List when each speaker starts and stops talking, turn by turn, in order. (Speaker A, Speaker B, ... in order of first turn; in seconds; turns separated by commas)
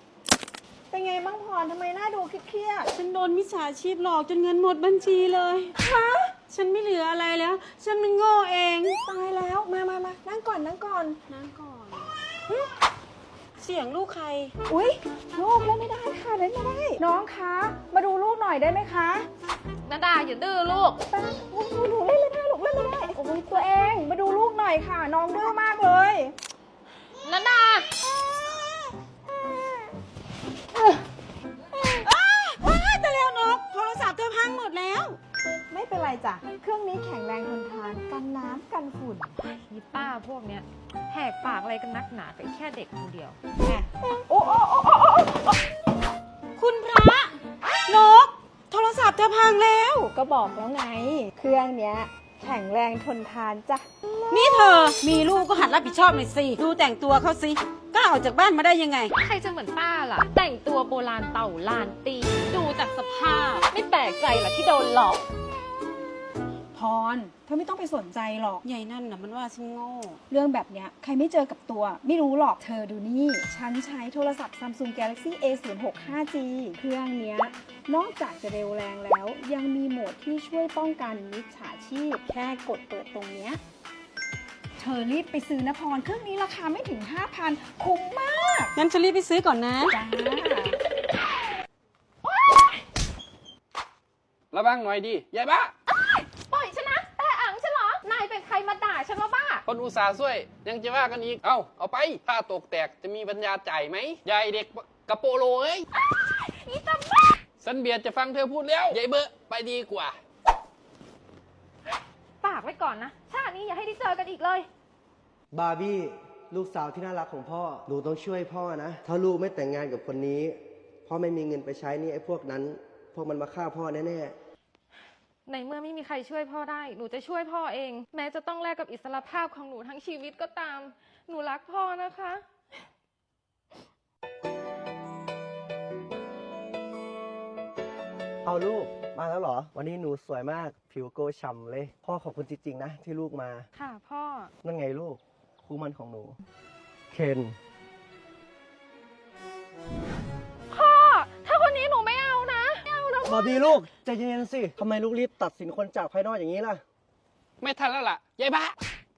Speaker A: 0.9-2.9, Speaker B: 2.9-5.8, Speaker A: 5.8-6.3, Speaker B: 6.5-9.0, Speaker A: 9.1-11.2, Speaker B: 11.3-12.7, Speaker B: 13.6-14.5, Speaker A: 14.7-19.3, Speaker C: 19.9-21.0, Speaker A: 21.1-26.3, Speaker C: 27.2-27.9, Speaker A: 28.0-28.7, Speaker A: 29.3-29.9, Speaker A: 31.8-32.0, Speaker B: 32.0-35.2, Speaker A: 35.7-39.3, Speaker C: 39.4-43.4, Speaker A: 43.6-45.6, Speaker B: 46.6-50.1, Speaker A: 50.1-55.0, Speaker B: 54.3-59.1, Speaker C: 59.2-65.2, Speaker B: 63.2-63.6, Speaker A: 66.7-68.6, Speaker B: 68.6-70.2, Speaker A: 70.3-83.6, Speaker A: 84.8-88.7, Speaker B: 88.8-90.0, Speaker A: 89.9-90.8, Speaker C: 92.4-92.7, Speaker D: 94.5-95.7, Speaker C: 95.9-99.6, Speaker D: 99.7-105.9, Speaker C: 106.2-107.4, Speaker D: 107.6-110.2, Speaker C: 112.4-114.7, Speaker E: 115.5-124.3, Speaker C: 125.5-132.4, Speaker E: 138.4-143.7, Speaker C: 143.8-144.5, Speaker E: 144.6-146.4, Speaker E: 147.1-147.6, Speaker C: 150.7-153.8, Speaker E: 153.2-156.8, Speaker D: 157.6-158.8